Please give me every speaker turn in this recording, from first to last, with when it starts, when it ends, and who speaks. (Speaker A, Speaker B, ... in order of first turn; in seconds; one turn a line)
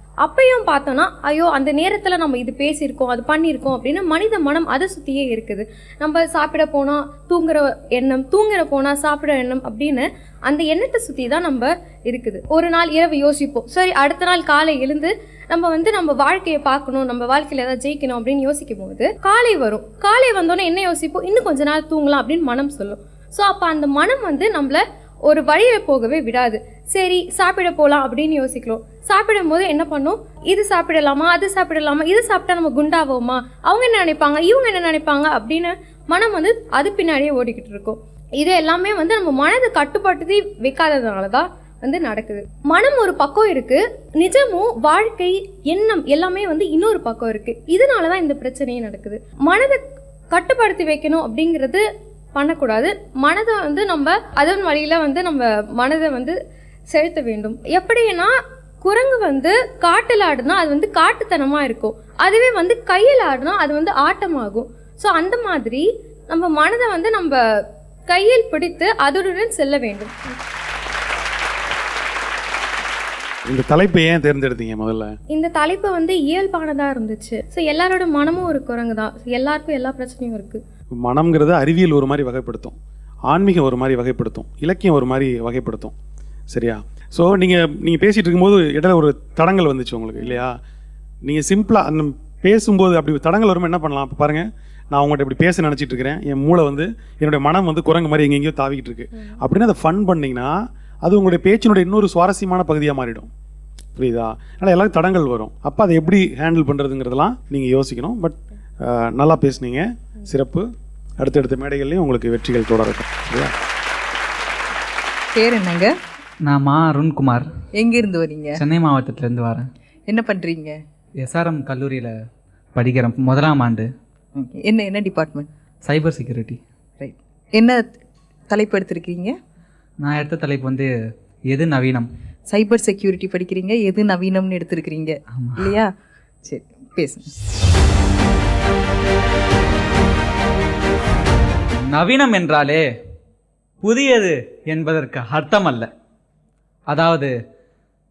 Speaker A: 0.2-56.4
Speaker A: 56.9-67.4
Speaker A: 68.1-70.3
Speaker B: 73.5-75.1
Speaker A: 75.3-80.6
Speaker B: 81.0-82.8
Speaker B: 83.3-85.9
Speaker B: 86.5-90.6
Speaker B: 91.2-100.5
Speaker B: 101.0-103.3
Speaker B: 104.0-110.7
Speaker B: 111.2-113.5
Speaker C: 115.4-115.9
Speaker D: 116.5-117.5
Speaker C: 117.8-118.6
Speaker D: 118.6-119.7
Speaker C: 120.1-120.7
Speaker D: 121.2-122.1
Speaker D: 122.7-123.9
Speaker C: 124.4-125.5
Speaker D: 125.8-126.6
Speaker C: 127.0-127.9
Speaker C: 128.5-129.3
Speaker D: 130.0-130.9
Speaker D: 131.5-132.1
Speaker C: 132.5-135.9
Speaker D: 135.3-135.7
Speaker C: 136.4-137.3
Speaker D: 141.9-142.8
Speaker D: 143.8-145.9
Speaker D: 146.9-147.3